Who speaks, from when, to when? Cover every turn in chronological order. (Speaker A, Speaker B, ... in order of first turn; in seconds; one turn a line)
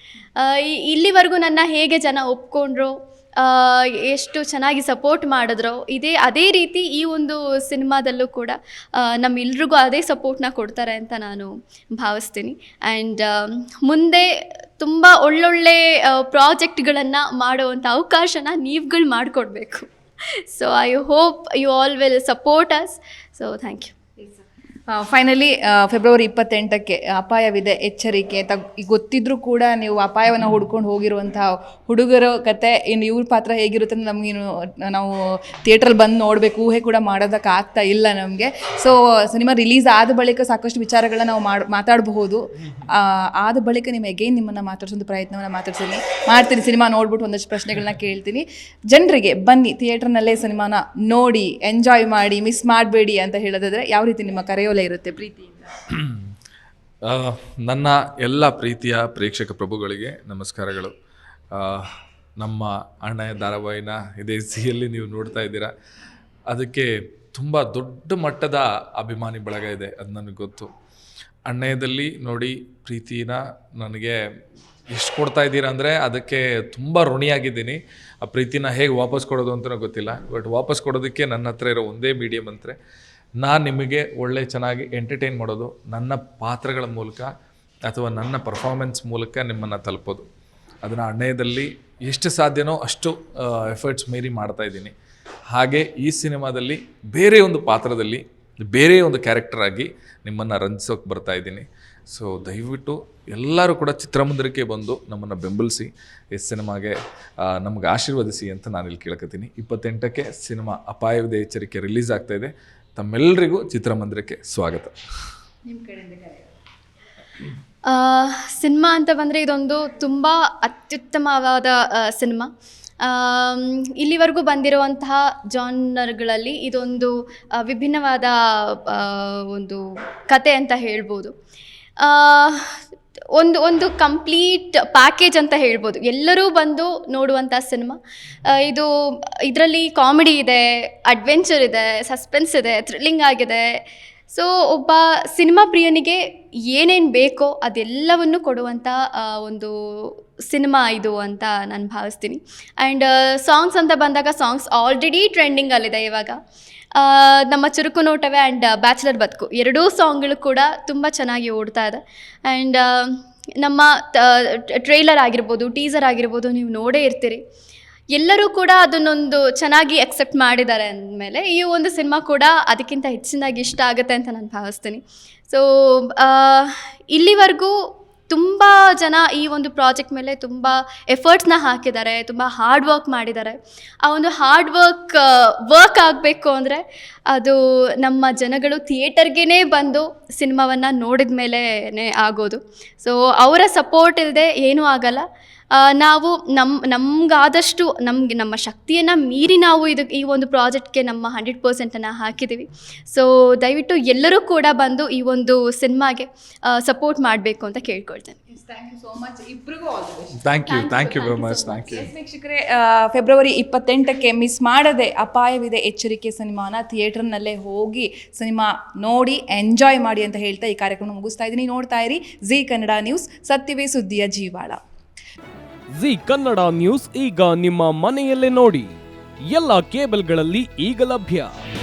Speaker A: 0.4-14.3
Speaker A: 14.8-19.9
Speaker A: 20.5-23.9
Speaker B: 24.9-55.7
Speaker C: 55.9-56.3
Speaker C: 57.0-60.9
Speaker C: 61.5-65.7
Speaker C: 66.5-70.7
Speaker C: 71.5-74.2
Speaker C: 74.9-82.8
Speaker C: 83.4-87.3
Speaker C: 87.9-90.3
Speaker C: 90.8-94.9
Speaker C: 95.5-114.9
Speaker B: 115.7-116.6
Speaker A: 117.9-122.5
Speaker A: 123.0-127.1
Speaker A: 127.6-131.3
Speaker A: 132.0-132.8
Speaker A: 133.4-138.9
Speaker A: 139.5-143.7
Speaker A: 144.3-146.2
Speaker A: 146.7-156.4
Speaker A: 157.0-167.4
Speaker A: 168.2-177.7
Speaker A: 178.3-195.2
Speaker A: 195.8-208.4
Speaker B: 208.5-210.5
Speaker C: 210.4-212.1
Speaker A: 210.7-211.9
Speaker B: 211.9-224.8
Speaker D: 225.9-231.6